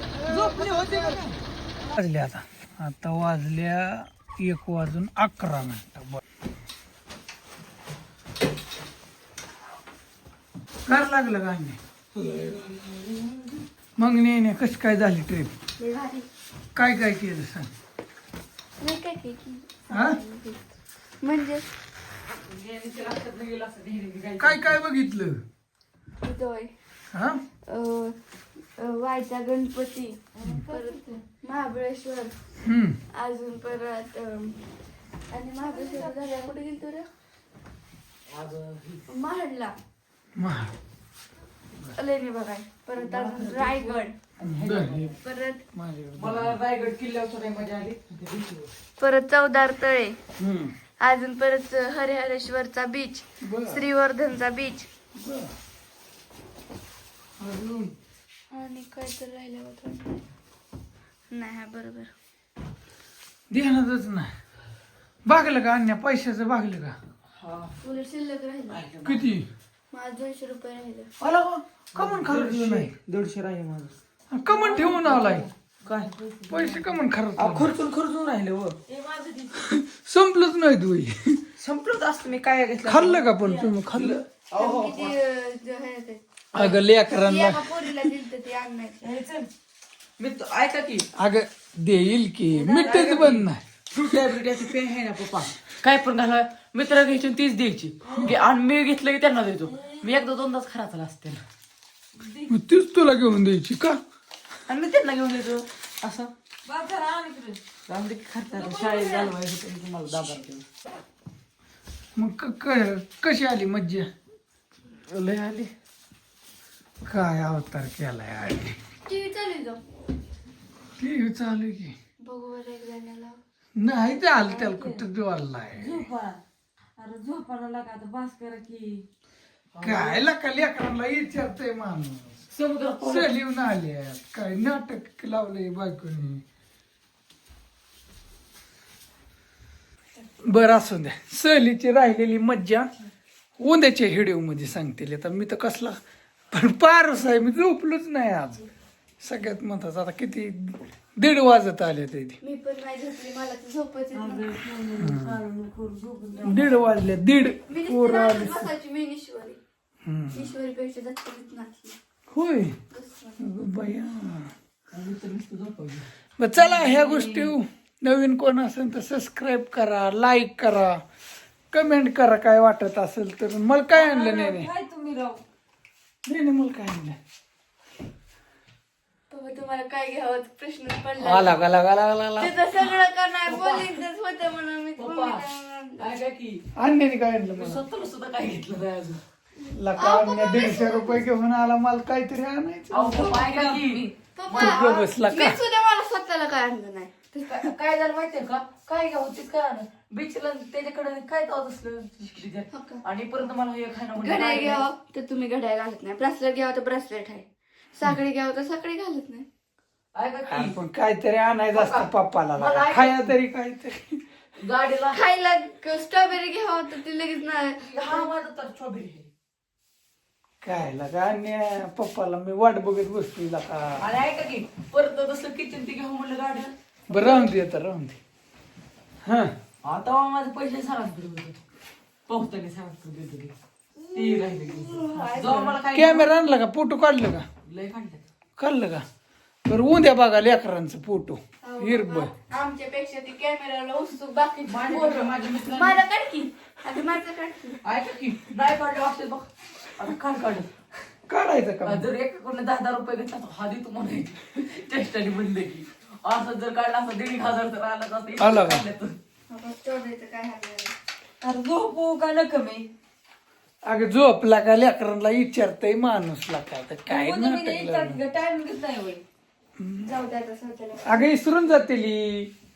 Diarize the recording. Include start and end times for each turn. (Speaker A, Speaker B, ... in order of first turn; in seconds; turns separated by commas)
Speaker A: 0.2-6.2, Speaker A: 10.9-11.8, Speaker B: 12.2-13.6, Speaker A: 14.0-15.5, Speaker C: 15.8-16.3, Speaker A: 16.8-17.7, Speaker C: 18.8-20.6, Speaker A: 19.9-20.2, Speaker C: 21.2-21.7, Speaker B: 22.5-24.8, Speaker A: 24.4-25.4, Speaker C: 26.2-26.7, Speaker A: 27.1-27.4, Speaker C: 27.7-28.2, Speaker C: 28.8-32.4, Speaker B: 30.4-31.2, Speaker A: 32.6-33.0, Speaker C: 33.1-34.6, Speaker C: 35.3-37.1, Speaker B: 38.3-39.0, Speaker C: 39.1-39.8, Speaker A: 40.4-40.7, Speaker C: 41.9-44.2, Speaker B: 43.0-45.2, Speaker A: 44.4-45.1, Speaker C: 45.2-45.6, Speaker A: 45.7-46.6, Speaker B: 46.2-48.7, Speaker C: 49.0-50.2, Speaker A: 50.4-50.8, Speaker C: 51.0-54.9, Speaker A: 53.4-53.9, Speaker A: 55.2-55.5, Speaker A: 57.4-57.9, Speaker C: 58.5-60.2, Speaker C: 61.3-62.1, Speaker A: 63.5-64.3, Speaker A: 65.2-67.0, Speaker B: 67.3-67.8, Speaker C: 67.8-68.8, Speaker B: 68.7-69.3, Speaker A: 69.0-69.5, Speaker C: 69.9-71.1, Speaker B: 71.2-74.0, Speaker A: 71.9-72.9, Speaker A: 74.3-75.5, Speaker B: 74.5-79.6, Speaker A: 76.5-77.8, Speaker A: 79.6-81.4, Speaker B: 81.6-85.2, Speaker A: 82.8-84.2, Speaker C: 84.6-86.2, Speaker B: 86.5-86.8, Speaker A: 86.5-88.1, Speaker C: 87.2-89.0, Speaker B: 89.0-89.5, Speaker B: 90.2-91.1, Speaker A: 91.2-93.6, Speaker B: 92.5-101.4, Speaker D: 102.2-102.5, Speaker A: 102.5-104.0, Speaker B: 104.7-106.3, Speaker D: 106.7-107.6, Speaker B: 107.9-110.7, Speaker D: 108.6-109.3, Speaker A: 112.2-114.1, Speaker B: 115.1-115.7, Speaker A: 117.0-118.8, Speaker C: 119.1-119.8, Speaker A: 121.0-122.0, Speaker C: 122.2-123.4, Speaker A: 123.8-126.1, Speaker B: 125.8-126.4, Speaker D: 127.0-129.0, Speaker B: 127.0-128.9, Speaker B: 129.7-130.2, Speaker A: 129.8-132.4, Speaker B: 132.5-133.4, Speaker A: 133.0-136.4, Speaker A: 140.4-142.9, Speaker A: 143.6-146.0, Speaker A: 146.5-148.7, Speaker A: 149.2-152.4, Speaker C: 152.4-154.6, Speaker B: 154.1-156.9, Speaker A: 155.0-155.4, Speaker A: 156.4-158.7, Speaker C: 157.7-159.6, Speaker A: 160.1-160.5, Speaker C: 160.3-162.0, Speaker A: 162.3-162.8, Speaker C: 162.9-163.5, Speaker A: 163.4-164.5, Speaker B: 164.9-166.1, Speaker A: 166.4-171.0, Speaker B: 166.6-167.6, Speaker A: 171.7-174.7, Speaker D: 174.0-175.4, Speaker B: 174.0-175.3, Speaker A: 176.3-177.2, Speaker C: 179.3-181.6, Speaker A: 181.2-182.6, Speaker C: 182.4-186.1, Speaker B: 183.4-184.0, Speaker B: 185.0-185.5, Speaker B: 186.0-186.6, Speaker A: 186.8-187.8, Speaker B: 187.6-189.2, Speaker C: 189.6-191.3, Speaker A: 189.8-193.7, Speaker B: 192.9-194.9, Speaker C: 193.3-197.7, Speaker A: 194.6-195.6, Speaker B: 197.4-204.8, Speaker C: 202.7-203.0, Speaker C: 204.2-209.5, Speaker B: 210.1-210.8, Speaker A: 210.5-214.2, Speaker B: 211.7-213.3, Speaker B: 214.6-215.2, Speaker C: 215.1-218.3, Speaker B: 217.8-219.3, Speaker A: 220.6-224.1, Speaker B: 224.0-227.5, Speaker A: 227.1-228.2, Speaker A: 229.2-229.5, Speaker B: 229.8-231.6, Speaker B: 232.3-233.5, Speaker C: 234.0-235.8, Speaker B: 234.1-236.3, Speaker A: 235.9-237.5, Speaker B: 237.7-238.2, Speaker A: 238.6-239.1, Speaker A: 239.7-242.3, Speaker C: 241.6-247.8, Speaker B: 244.7-246.0, Speaker B: 247.8-250.7, Speaker A: 251.3-252.1, Speaker B: 251.8-259.2, Speaker A: 258.4-258.9, Speaker C: 259.5-260.9, Speaker B: 261.4-262.9, Speaker D: 262.2-262.9, Speaker A: 263.9-268.2, Speaker D: 267.1-269.2, Speaker B: 267.3-268.0, Speaker A: 269.8-270.1, Speaker C: 270.0-271.3, Speaker A: 271.1-272.5